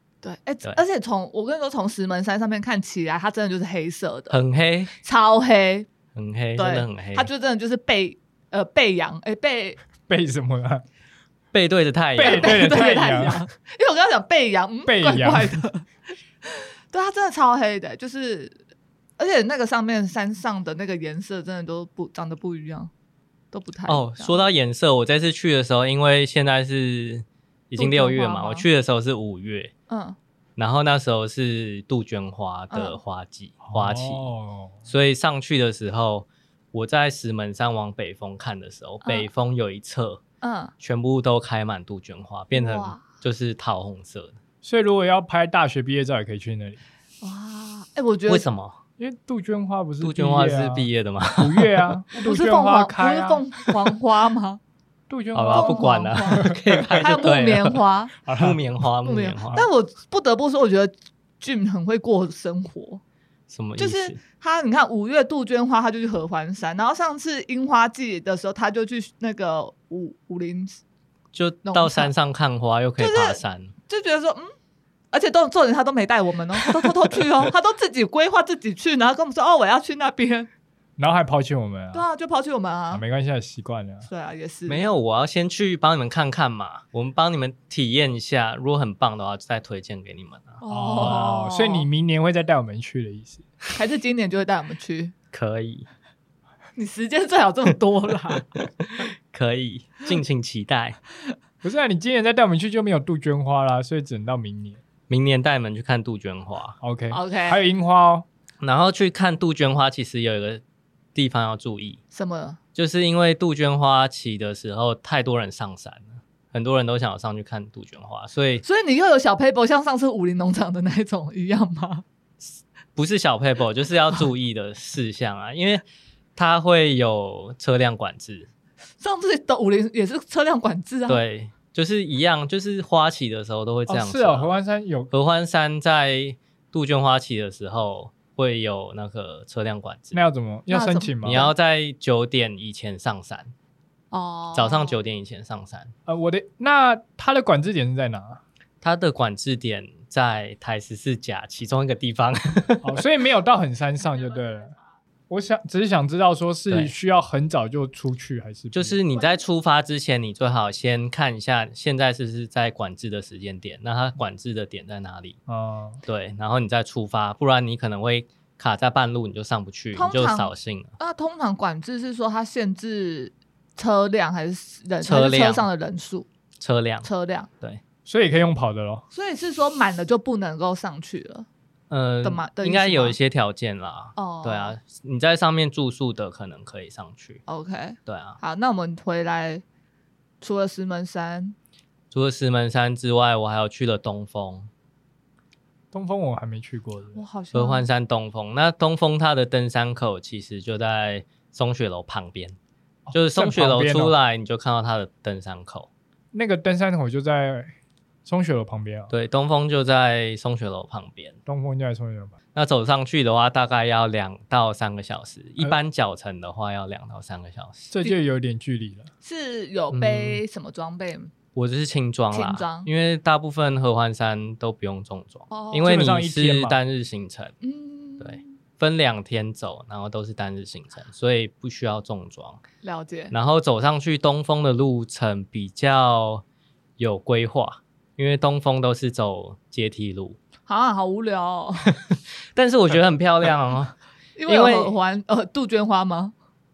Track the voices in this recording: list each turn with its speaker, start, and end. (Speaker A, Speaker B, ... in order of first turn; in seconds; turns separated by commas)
Speaker A: 0.2-4.4, Speaker B: 4.3-5.0, Speaker A: 5.0-5.9, Speaker B: 6.2-7.3, Speaker A: 6.6-9.8, Speaker C: 10.0-10.8, Speaker B: 11.5-12.7, Speaker C: 12.2-13.4, Speaker A: 12.2-15.8, Speaker C: 14.9-15.7, Speaker A: 16.4-18.6, Speaker A: 19.2-22.9, Speaker A: 23.5-24.4, Speaker B: 23.9-29.7, Speaker A: 27.8-28.7, Speaker A: 29.9-30.2, Speaker B: 30.6-34.3, Speaker A: 32.7-33.0, Speaker C: 33.6-34.8, Speaker B: 34.9-40.2, Speaker A: 40.4-40.7, Speaker B: 40.8-44.4, Speaker A: 42.5-43.0, Speaker C: 44.6-46.8, Speaker A: 47.2-48.5, Speaker B: 48.3-48.8, Speaker C: 49.0-53.4, Speaker B: 50.0-51.8, Speaker A: 52.2-54.6, Speaker C: 55.1-55.9, Speaker B: 55.3-57.8, Speaker A: 55.5-58.2, Speaker C: 58.3-58.6, Speaker B: 58.3-59.6, Speaker A: 59.0-63.0, Speaker B: 63.5-64.2, Speaker A: 63.8-70.8, Speaker B: 71.3-73.7, Speaker A: 71.7-72.1, Speaker A: 73.0-74.5, Speaker A: 75.1-80.5, Speaker C: 81.0-82.0, Speaker A: 81.9-83.0, Speaker C: 82.9-84.1, Speaker A: 84.1-84.8, Speaker B: 84.7-91.2, Speaker A: 90.6-91.9, Speaker C: 90.7-93.5, Speaker A: 93.8-95.1, Speaker B: 95.3-95.9, Speaker A: 96.8-98.5, Speaker B: 98.6-101.0, Speaker C: 101.6-104.8, Speaker B: 105.1-106.8, Speaker C: 106.8-108.3, Speaker A: 107.1-107.6, Speaker B: 108.6-110.6, Speaker B: 111.2-112.0, Speaker A: 112.1-112.6, Speaker B: 112.7-118.6, Speaker A: 118.6-122.0, Speaker B: 122.4-125.8, Speaker B: 126.4-128.5, Speaker A: 129.0-131.2, Speaker B: 131.1-134.5, Speaker C: 133.9-135.1, Speaker B: 135.1-140.2, Speaker C: 140.1-141.5, Speaker A: 140.7-141.5, Speaker B: 141.2-143.5, Speaker A: 144.1-145.0, Speaker B: 144.5-145.9, Speaker C: 146.1-148.4, Speaker B: 148.8-153.0, Speaker C: 152.8-154.7, Speaker C: 155.3-159.0, Speaker B: 156.7-156.9, Speaker B: 158.7-165.4, Speaker C: 165.5-166.0, Speaker B: 166.1-170.9, Speaker A: 169.9-176.3, Speaker B: 175.0-175.7, Speaker B: 176.6-177.1, Speaker A: 177.0-177.5, Speaker C: 178.1-179.0, Speaker A: 179.1-181.5, Speaker B: 181.9-187.4, Speaker A: 182.2-183.2, Speaker A: 184.2-184.8, Speaker A: 187.5-189.6, Speaker B: 188.1-188.4, Speaker A: 190.4-191.6, Speaker B: 192.1-194.7, Speaker C: 195.9-197.2, Speaker A: 197.2-197.8, Speaker B: 197.5-202.6, Speaker C: 203.1-204.2, Speaker B: 203.1-205.9, Speaker C: 206.3-207.7, Speaker C: 208.2-209.1, Speaker B: 209.1-211.4, Speaker C: 211.5-212.3, Speaker B: 212.6-218.0, Speaker C: 217.9-219.1, Speaker A: 219.2-221.3, Speaker B: 219.9-220.4, Speaker B: 221.5-227.5, Speaker A: 222.3-222.9, Speaker A: 225.5-226.1, Speaker C: 225.8-226.8, Speaker A: 227.6-228.5, Speaker B: 228.2-232.6, Speaker A: 232.8-233.3, Speaker B: 233.3-236.4, Speaker B: 237.0-240.4, Speaker A: 240.7-241.9, Speaker B: 241.9-243.9, Speaker A: 244.4-246.3, Speaker B: 244.5-244.9